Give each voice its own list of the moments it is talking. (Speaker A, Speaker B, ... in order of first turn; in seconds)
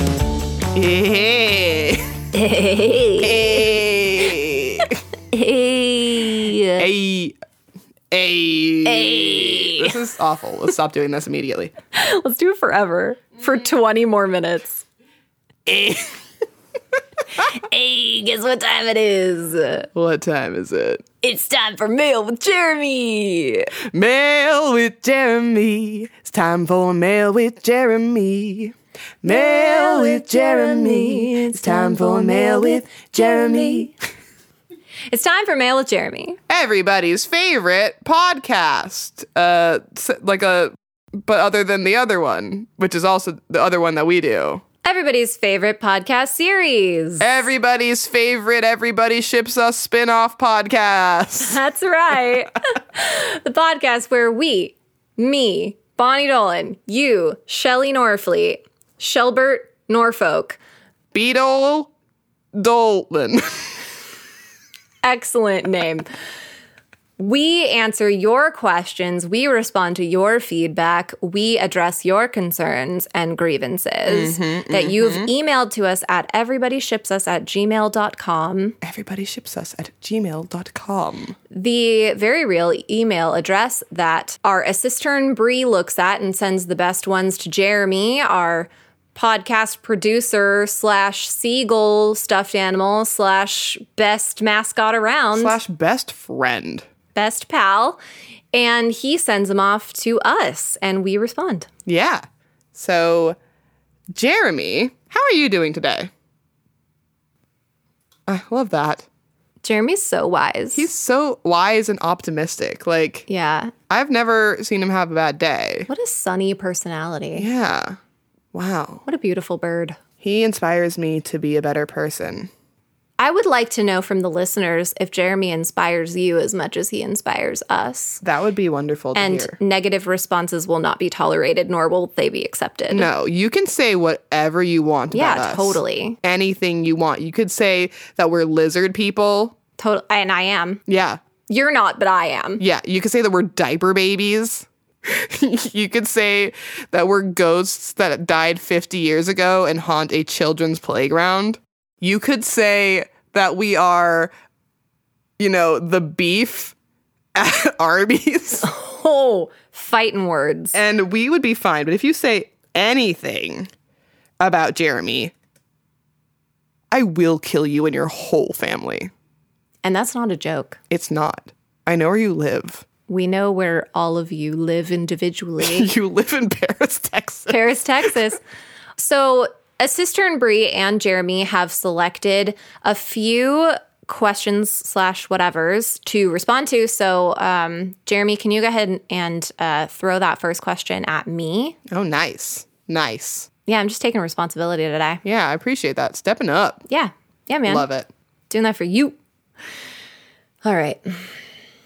Speaker A: 0.7-2.1, 3.2-5.0, 6.8-7.3, 8.1-11.7, 15.7-16.1, 19.9-21.0, 23.9-34.0, 36.5-44.6, 47.2-51.6, 61.1-61.9, 62.5-63.7, 74.1-75.3, 78.8-81.3, 95.3-96.9, 101.8-103.4, 104.1-106.1, 108.3-109.0, 110.7-113.3, 113.9-115.9, 117.4-118.0, 118.5-119.0, 120.2-122.5, 128.2-129.6, 132.9-139.5, 140.9-141.2, 142.6-154.3, 155.4-156.7, 157.3-158.7, 160.7-163.7, 164.4-165.3, 166.9-169.1, 170.9-172.8, 175.6-177.6, 191.9-193.5, 195.2-196.8, 197.7-198.1
Speaker B: 2.3-3.7, 5.3-6.9, 8.8-10.0, 11.9-14.8, 17.4-19.9, 21.2-23.7, 29.2-33.9, 35.1-36.4, 44.8-47.3, 51.4-60.6, 65.0-66.1, 67.2-78.8, 81.5-95.6, 97.1-98.0, 98.5-101.7, 109.6-110.9, 113.3-113.7, 115.9-117.5, 119.0-120.0, 123.2-128.2, 129.1-133.1, 135.1-136.2, 139.8-140.8, 141.5-142.6, 158.6-160.8, 169.8-170.8, 173.1-175.9, 177.5-178.4, 179.0-191.8, 193.7-195.2, 196.9-197.8, 198.5-199.2, 200.6-201.3